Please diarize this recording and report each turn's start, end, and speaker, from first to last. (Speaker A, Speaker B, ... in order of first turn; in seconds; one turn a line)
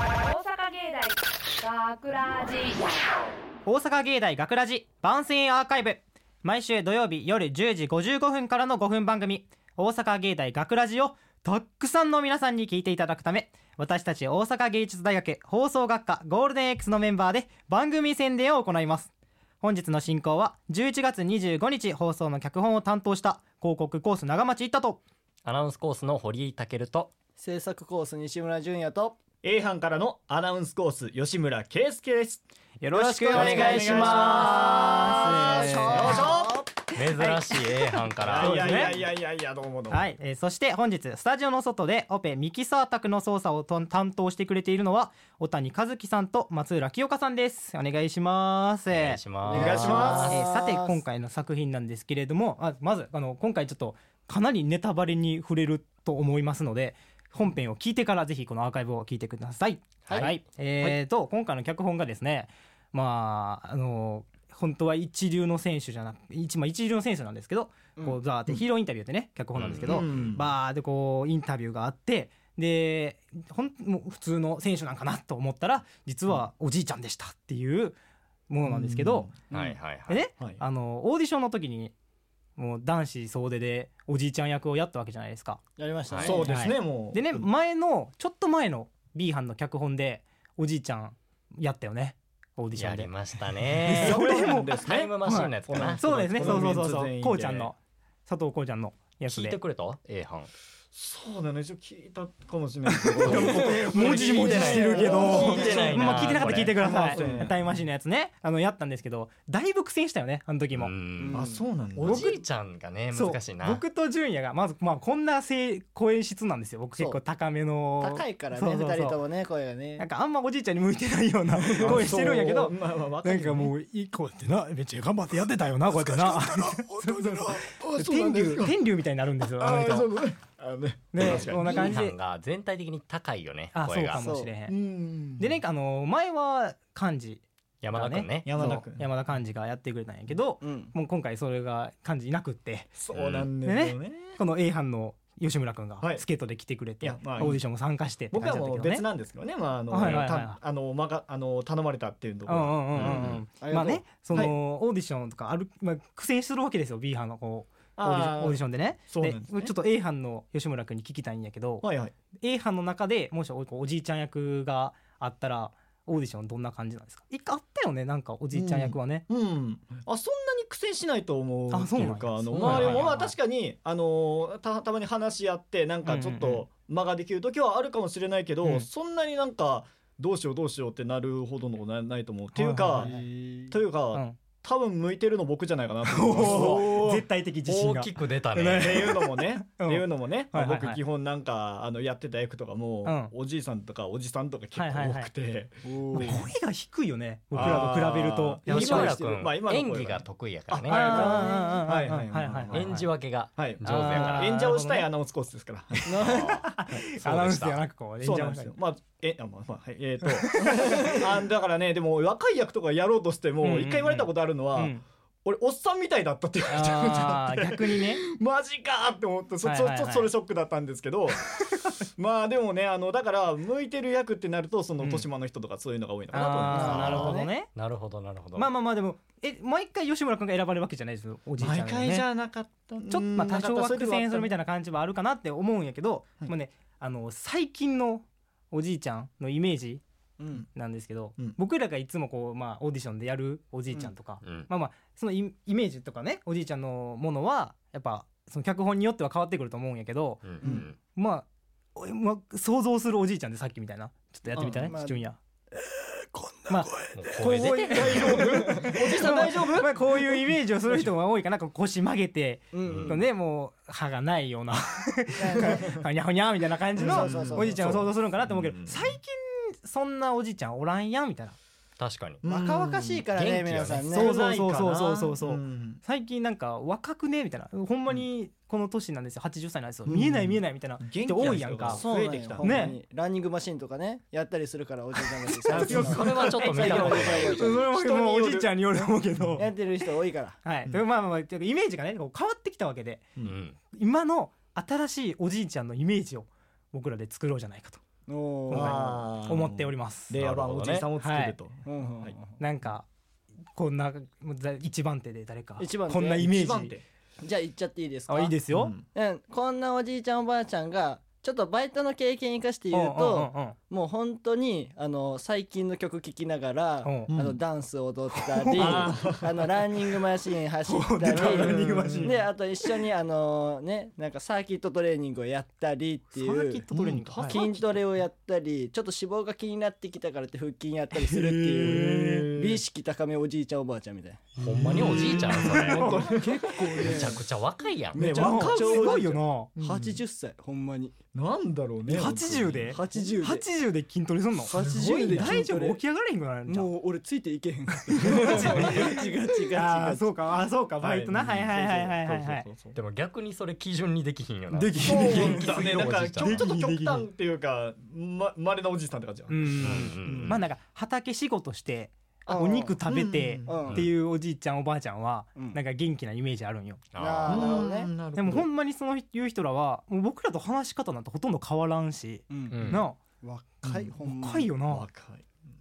Speaker A: 0.2-2.7
Speaker B: 3.7-25.0
Speaker C: 25.4-27.1
Speaker D: 27.4-29.2
Speaker E: 29.4-32.4
Speaker B: 32.8-36.3
Speaker D: 32.9-36.7
Speaker E: 33.3-36.6
Speaker C: 33.3-34.6
Speaker C: 37.0-38.9
Speaker B: 37.1-37.4
Speaker E: 38.2-40.1
Speaker B: 38.4-39.0
Speaker B: 39.9-78.0
Speaker C: 48.9-50.5
Speaker D: 49.4-51.0
Speaker E: 49.5-50.4
Speaker C: 60.1-60.4
Speaker C: 69.5-70.1
Speaker E: 69.8-70.5
Speaker B: 78.5-79.3
Speaker E: 78.7-79.8
Speaker C: 79.5-80.2
Speaker B: 80.1-81.9
Speaker E: 80.3-80.6
Speaker B: 82.6-85.6
Speaker D: 85.8-86.5
Speaker C: 86.1-86.4
Speaker E: 86.2-87.5
Speaker B: 86.4-93.1
Speaker C: 92.8-94.2
Speaker B: 93.7-99.6
Speaker E: 93.8-95.1
Speaker C: 94.8-96.5
Speaker E: 95.7-97.7
Speaker C: 99.3-100.5
Speaker E: 100.9-107.6
Speaker B: 102.9-110.9
Speaker D: 103.2-106.0
Speaker C: 103.5-106.8
Speaker D: 107.1-107.5
Speaker C: 110.7-113.8
Speaker D: 111.2-111.6
Speaker E: 111.3-112.3
Speaker B: 112.0-112.4
Speaker B: 113.1-119.2
Speaker D: 118.0-120.1
Speaker B: 120.0-130.1
Speaker D: 121.8-122.2
Speaker E: 121.8-123.7
Speaker E: 127.1-128.8
Speaker E: 129.6-131.9
Speaker B: 131.1-132.2
Speaker C: 131.2-134.3
Speaker B: 133.7-134.8
Speaker D: 134.2-134.5
Speaker E: 134.7-135.6
Speaker B: 135.4-137.4
Speaker C: 137.8-138.6
Speaker B: 137.9-142.9
Speaker E: 138.4-139.1
Speaker D: 140.6-140.9
Speaker E: 143.0-144.4
Speaker C: 143.1-143.5
Speaker B: 143.6-149.1
Speaker E: 147.0-147.6
Speaker E: 148.3-153.4
Speaker B: 149.9-150.6
Speaker B: 152.5-161.9
Speaker C: 153.0-153.4
Speaker D: 153.6-154.0
Speaker E: 158.0-159.7
Speaker E: 161.8-162.1
Speaker B: 162.4-169.3
Speaker E: 168.5-183.1
Speaker B: 171.7-173.3
Speaker C: 172.5-173.2
Speaker B: 176.1-176.7
Speaker B: 182.5-183.1
Speaker D: 183.0-183.8
Speaker E: 183.7-187.2
Speaker B: 184.1-184.4
Speaker B: 186.1-191.0
Speaker C: 187.7-189.2
Speaker E: 188.7-196.4
Speaker B: 193.0-193.3
Speaker B: 194.8-195.3
Speaker D: 195.8-196.5
Speaker B: 196.1-199.1
Speaker E: 197.5-203.0
Speaker C: 198.7-201.2
Speaker D: 198.9-199.4
Speaker B: 200.9-203.1
Speaker D: 201.1-201.8
Speaker C: 202.7-204.7
Speaker E: 203.6-206.6
Speaker B: 203.8-205.1
Speaker D: 206.1-206.6
Speaker B: 206.2-208.8
Speaker C: 206.3-207.8
Speaker E: 208.2-214.9
Speaker B: 210.3-211.0
Speaker B: 213.6-215.0
Speaker E: 215.4-227.3
Speaker B: 216.7-218.2
Speaker B: 219.6-220.3
Speaker B: 225.0-225.3
Speaker B: 226.3-227.7
Speaker D: 226.6-227.5
Speaker C: 226.9-228.7
Speaker B: 228.6-232.3
Speaker E: 231.6-234.5
Speaker B: 233.1-240.0
Speaker B: 240.7-255.4
Speaker C: 244.4-244.7
Speaker C: 250.4-251.0
Speaker E: 254.5-254.9
Speaker D: 254.9-255.2
Speaker D: 256.3-257.1
Speaker B: 256.7-271.6
Speaker C: 257.1-258.6
Speaker E: 257.9-260.5
Speaker D: 262.7-263.3
Speaker C: 262.9-263.2
Speaker D: 265.4-265.9
Speaker D: 267.0-268.0
Speaker E: 267.0-269.2
Speaker C: 272.0-272.4
Speaker E: 272.4-273.2
Speaker D: 272.4-274.6
Speaker C: 273.3-274.1
Speaker B: 274.1-282.0
Speaker E: 274.1-276.0
Speaker E: 280.1-282.9
Speaker D: 281.9-287.9
Speaker B: 282.6-283.0
Speaker E: 285.7-288.7
Speaker C: 285.8-287.6
Speaker B: 287.5-289.7
Speaker D: 289.6-290.6
Speaker B: 290.6-293.3
Speaker C: 293.4-293.8
Speaker B: 293.9-298.0
Speaker D: 298.3-299.0
Speaker B: 298.7-300.3
Speaker E: 298.7-302.4
Speaker C: 300.3-301.1
Speaker B: 301.2-301.6
Speaker D: 301.9-302.5
Speaker B: 302.6-303.1
Speaker B: 303.7-307.0
Speaker D: 305.8-306.6
Speaker E: 306.4-307.0
Speaker D: 307.4-308.6
Speaker B: 308.3-308.9
Speaker E: 308.7-309.1
Speaker D: 309.1-326.9
Speaker B: 312.9-313.8
Speaker B: 317.0-317.3
Speaker E: 317.3-317.6
Speaker B: 318.6-319.2
Speaker E: 318.7-319.5
Speaker B: 320.9-322.9
Speaker E: 321.3-322.3
Speaker B: 326.3-327.6
Speaker E: 326.9-328.0
Speaker D: 327.4-334.5
Speaker E: 331.3-332.8
Speaker B: 331.8-332.4
Speaker C: 334.6-336.1
Speaker E: 334.6-337.1
Speaker B: 335.4-336.4
Speaker D: 335.8-337.4
Speaker C: 337.0-338.3
Speaker D: 338.1-339.2
Speaker E: 338.2-340.2
Speaker B: 338.3-339.7
Speaker D: 339.8-341.1
Speaker E: 341.3-343.3
Speaker B: 342.1-346.9
Speaker D: 342.9-343.6
Speaker D: 344.7-346.0
Speaker E: 344.7-345.5
Speaker D: 346.7-350.3
Speaker B: 348.2-349.2
Speaker E: 348.2-349.2
Speaker B: 349.7-352.7
Speaker E: 351.0-353.0
Speaker C: 352.9-356.7
Speaker B: 354.7-357.3
Speaker E: 355.0-360.6
Speaker B: 359.5-367.0
Speaker C: 359.8-360.6
Speaker D: 362.5-363.0
Speaker E: 363.1-363.9
Speaker D: 363.7-364.1
Speaker C: 367.1-367.6
Speaker D: 367.2-368.1
Speaker E: 367.5-368.7
Speaker B: 368.4-373.2
Speaker D: 372.5-372.9
Speaker C: 372.7-373.1
Speaker D: 373.4-374.7
Speaker B: 373.9-375.1
Speaker E: 374.9-375.6